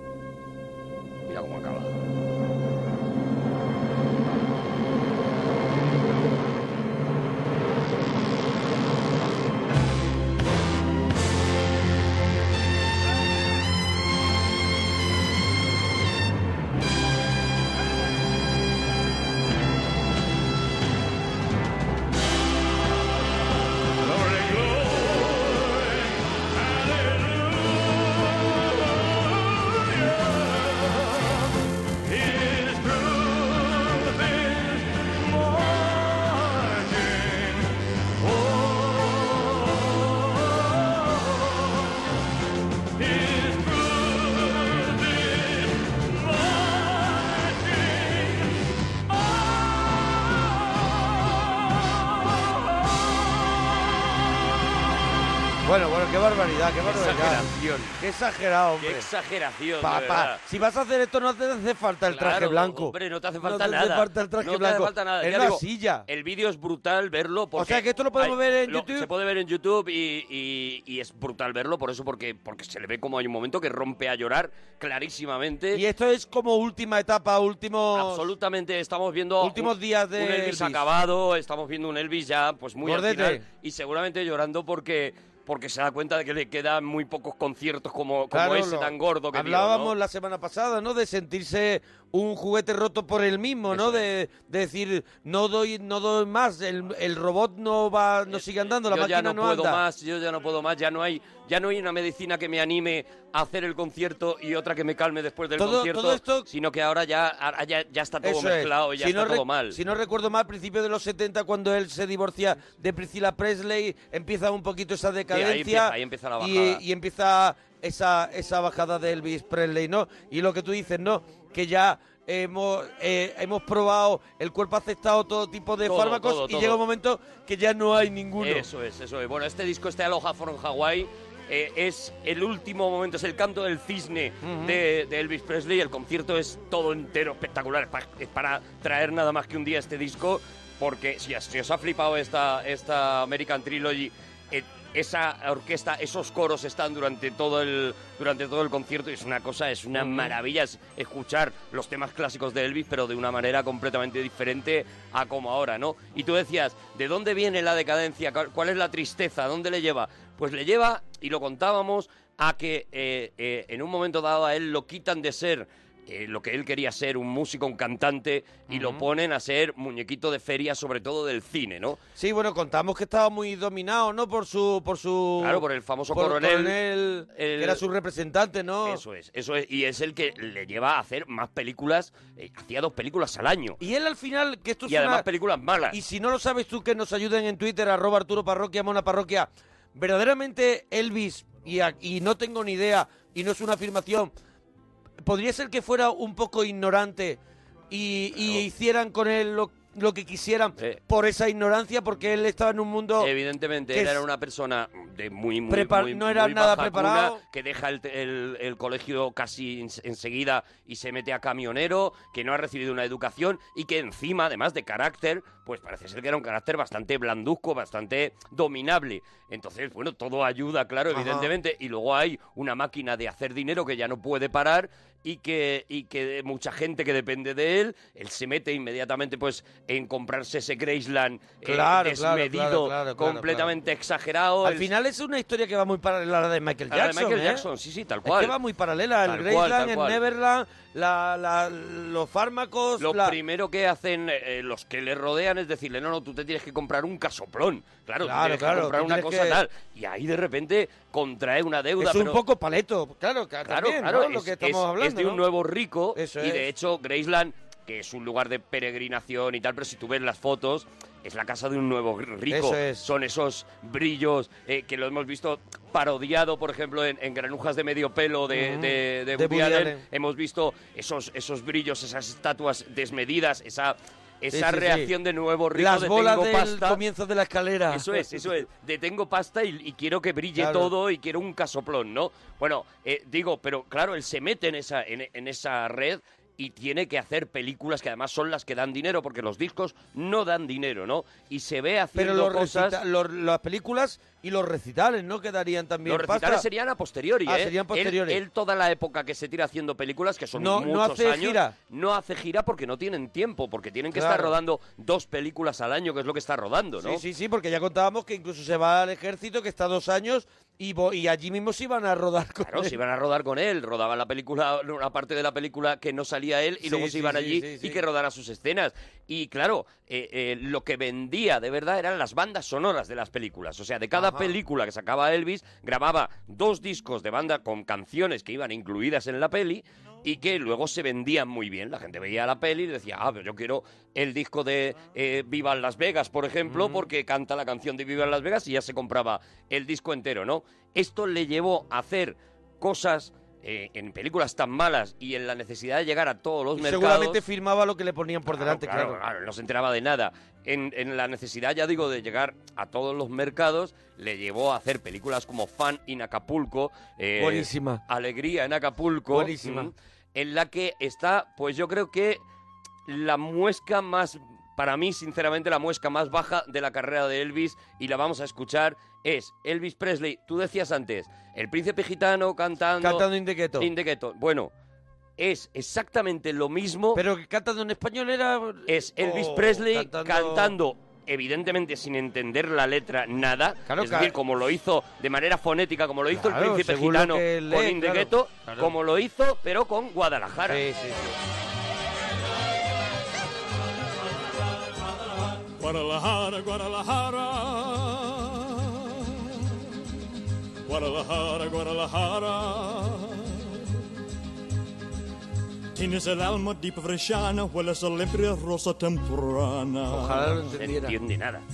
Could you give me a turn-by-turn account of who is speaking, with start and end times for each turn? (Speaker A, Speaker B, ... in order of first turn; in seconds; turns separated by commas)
Speaker A: 1.2-2.0, Speaker B: 24.0-31.5, Speaker B: 32.0-42.0, Speaker B: 43.0-48.5, Speaker C: 55.6-57.5, Speaker A: 56.8-58.0, Speaker C: 58.0-59.1, Speaker A: 58.8-60.4, Speaker C: 59.8-66.0, Speaker A: 62.1-75.8, Speaker C: 67.5-69.1, Speaker C: 75.7-78.3, Speaker A: 77.9-89.9, Speaker C: 79.4-80.8, Speaker C: 82.8-83.4, Speaker C: 88.3-99.8, Speaker A: 93.7-94.1, Speaker A: 98.3-109.8, Speaker C: 105.6-106.5, Speaker C: 108.2-128.7, Speaker A: 115.3-116.8, Speaker A: 125.8-126.8, Speaker A: 128.4-172.0, Speaker C: 134.4-134.8, Speaker C: 168.7-169.1, Speaker C: 172.2-179.0, Speaker A: 175.4-177.8, Speaker A: 178.8-183.8, Speaker C: 183.8-185.2, Speaker A: 184.8-186.0, Speaker C: 185.9-194.3, Speaker C: 195.2-197.4, Speaker C: 197.9-203.3, Speaker A: 198.3-198.7, Speaker A: 203.2-234.9, Speaker C: 203.9-204.2, Speaker C: 205.7-207.4, Speaker C: 221.1-221.5, Speaker C: 231.6-233.7, Speaker C: 234.6-237.7, Speaker A: 236.9-238.6, Speaker C: 238.2-243.4, Speaker A: 239.2-240.2, Speaker A: 243.0-252.4, Speaker C: 248.2-249.6, Speaker C: 252.0-255.4, Speaker A: 253.6-277.0, Speaker C: 256.1-256.7, Speaker C: 262.5-263.1, Speaker C: 268.5-270.0, Speaker C: 274.5-275.1, Speaker C: 275.7-278.6, Speaker A: 277.9-293.0, Speaker C: 280.6-280.9, Speaker C: 292.1-296.6, Speaker A: 296.0-307.2, Speaker C: 297.4-298.4, Speaker C: 300.5-301.7, Speaker C: 304.1-304.5, Speaker C: 307.0-313.0, Speaker A: 312.6-347.4, Speaker C: 316.8-318.0, Speaker C: 324.1-324.5, Speaker C: 336.6-337.1, Speaker C: 346.8-349.2, Speaker A: 348.5-362.4, Speaker C: 357.4-358.0, Speaker C: 359.3-359.9, Speaker A: 363.1-373.3, Speaker C: 373.0-373.9, Speaker A: 373.8-374.7, Speaker A: 375.4-377.2, Speaker C: 377.1-380.7, Speaker A: 378.9-390.9, Speaker C: 383.9-384.3, Speaker C: 386.3-388.9, Speaker C: 390.7-391.4, Speaker B: 395.8-399.9, Speaker B: 400.9-404.0, Speaker B: 405.9-410.5, Speaker C: 410.1-411.1, Speaker A: 410.7-411.6